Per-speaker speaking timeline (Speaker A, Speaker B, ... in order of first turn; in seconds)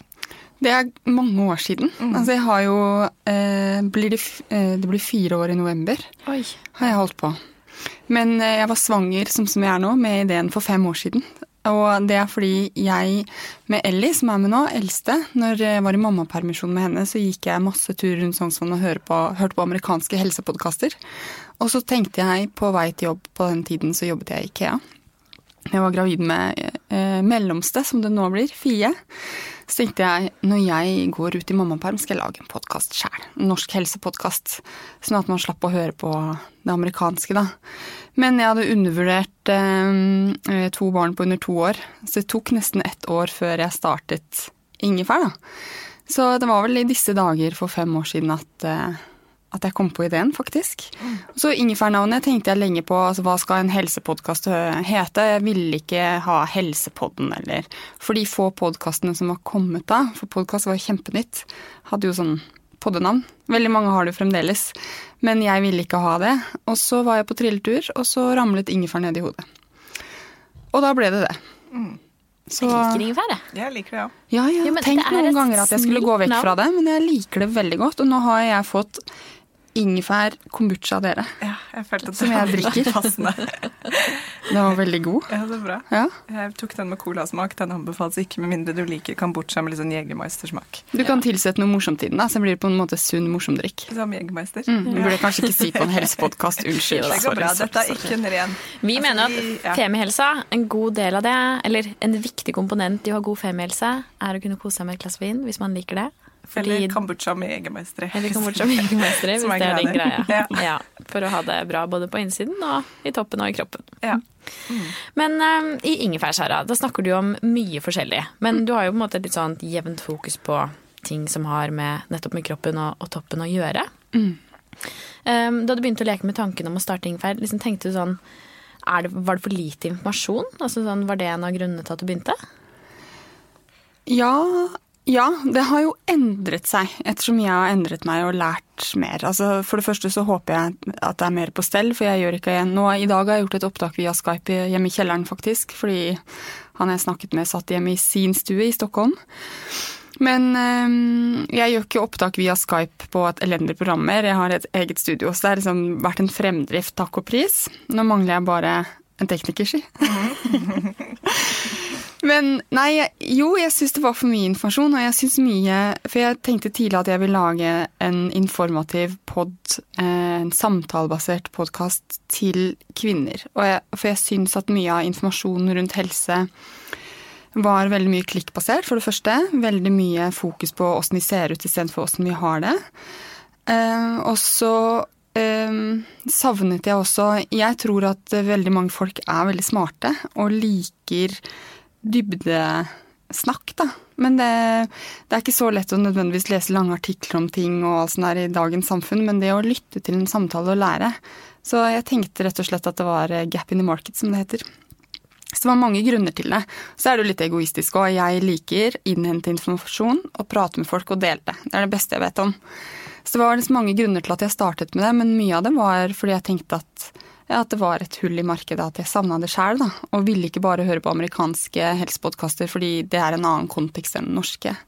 Speaker A: 0.6-6.1, 6.7-7.4, 8.1-21.0, 21.6-24.8, 25.7-29.0, 29.6-37.5, 38.1-45.4, 46.0-69.5, 70.7-71.4, 72.5-73.0, 74.3-79.0, 79.7-81.3, 82.2-82.9, 84.5-85.3, 85.9-86.1, 90.9-93.9, 94.7-98.0, 124.1-124.4, 134.1-146.2, 146.7-176.5, 177.5-182.8, 183.7-191.4, 192.0-204.6, 205.5-212.6, 213.2-224.8
Speaker B: 2.0-2.3, 71.7-72.0, 73.5-74.1, 81.4-84.2, 85.3-90.9, 93.9-96.1, 97.0-99.8, 106.5-110.6, 114.0-114.9, 160.1-160.9
Speaker C: 6.3-6.6, 72.6-73.4, 74.6-76.5, 94.8-95.5, 96.8-97.4, 98.7-107.0, 108.1-114.0, 115.0-123.9, 125.2-128.2, 128.8-132.4